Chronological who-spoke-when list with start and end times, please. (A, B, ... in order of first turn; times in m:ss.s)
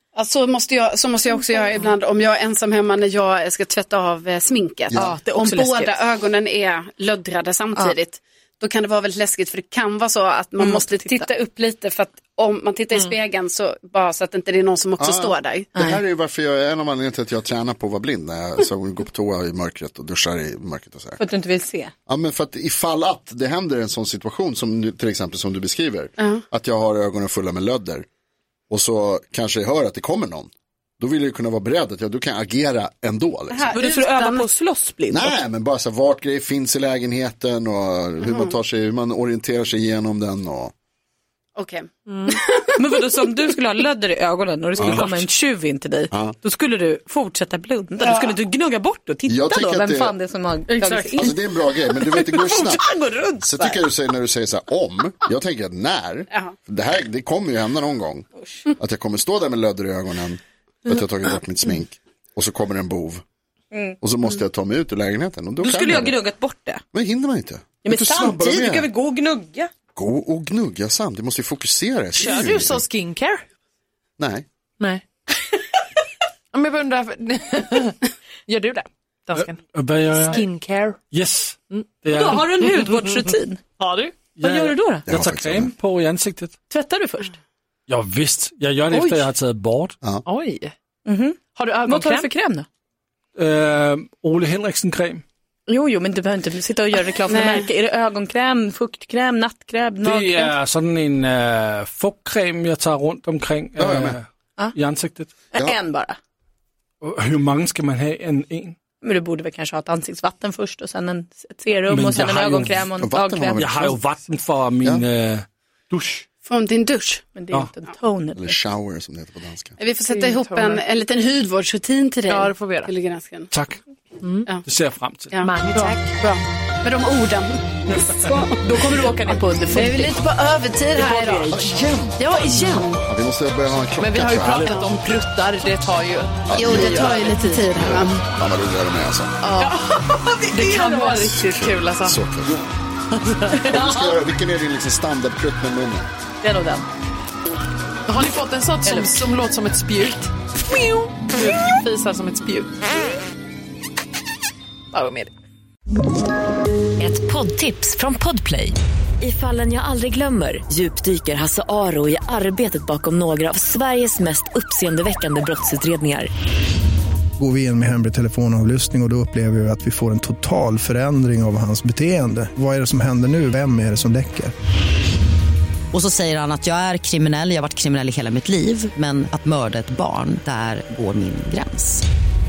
0:00.2-0:15.7 A
0:04.9-0:06.0 B
0:10.6-0:11.3 B
0:15.0-0:21.2 C
0:21.2-0:21.9 B
0:22.1-0:28.1 C
0:26.2-0:26.4 A
0:28.7-0:33.7 C
0:33.5-0:34.5 A
0:33.7-0:35.4 B
0:35.1-0:40.7 C
0:38.2-0:38.6 A
0:41.6-0:42.8 A
0:42.1-0:42.4 D
0:42.8-0:51.4 B
0:44.8-0:45.1 C
0:48.0-0:48.4 A
0:49.3-0:50.2 C
0:50.7-0:51.3 D
0:51.2-0:52.9 C
0:52.1-0:53.8 B
0:53.4-0:58.3 C
0:58.4-0:58.6 B
0:58.8-1:03.2 C
1:03.7-1:04.0 B
1:04.0-1:06.2 C
1:05.6-1:06.8 B
1:06.9-1:08.9 C
1:07.8-1:09.7 B
1:10.0-1:12.8 C
1:12.1-1:13.4 D
1:14.2-1:14.5 C
1:14.8-1:15.6 D
1:16.5-1:19.6 D
1:19.4-1:20.4 E
1:20.1-1:21.0 D
1:21.1-1:22.6 E
1:22.1-1:23.6 B
1:22.7-1:24.3 D
1:24.4-1:26.6 E
1:24.4-1:25.1 B
1:25.1-1:25.7 C
1:26.7-1:27.4 B
1:27.9-1:30.0 E
1:28.9-1:29.2 D
1:30.2-1:30.7 D
1:31.0-1:32.7 B
1:31.6-1:32.3 D
1:33.4-1:35.2 E
1:35.7-1:40.5 B
1:37.3-1:37.7 A
1:40.0-1:45.3 E
1:43.8-1:44.2 C
1:45.5-1:46.2 B
1:47.0-1:48.8 E
1:49.0-1:54.0 B
1:51.9-1:52.9 E
1:53.0-1:53.8 C
1:53.6-1:56.2 E
1:56.4-1:57.3 A
1:57.4-1:58.6 B
1:58.4-1:59.8 C
1:59.8-2:03.5 A
2:00.0-2:00.8 D
2:02.3-2:02.9 D
2:03.5-2:03.8 E
2:04.2-2:04.5 D
2:04.6-2:05.4 E
2:05.3-2:09.0 A
2:05.4-2:06.0 D
2:08.5-2:10.2 B
2:09.7-2:11.5 A
2:11.0-2:11.7 B
2:11.5-2:12.3 C
2:12.2-2:13.0 A
2:13.0-2:14.6 C
2:14.0-2:16.5 D
2:14.5-2:14.8 E
2:14.5-2:14.9 A
2:16.5-2:19.4 C
2:16.6-2:18.2 A
2:17.2-2:17.7 D
2:19.4-2:22.2 D
2:20.6-2:21.2 B
2:21.4-2:22.7 C
2:23.1-2:24.1 D
2:23.5-2:26.1 C
2:26.4-2:26.9 B
2:28.1-2:32.8 D
2:34.9-2:35.3 D
2:37.0-2:46.3 F
2:47.4-2:54.5 G
2:55.9-3:02.0 H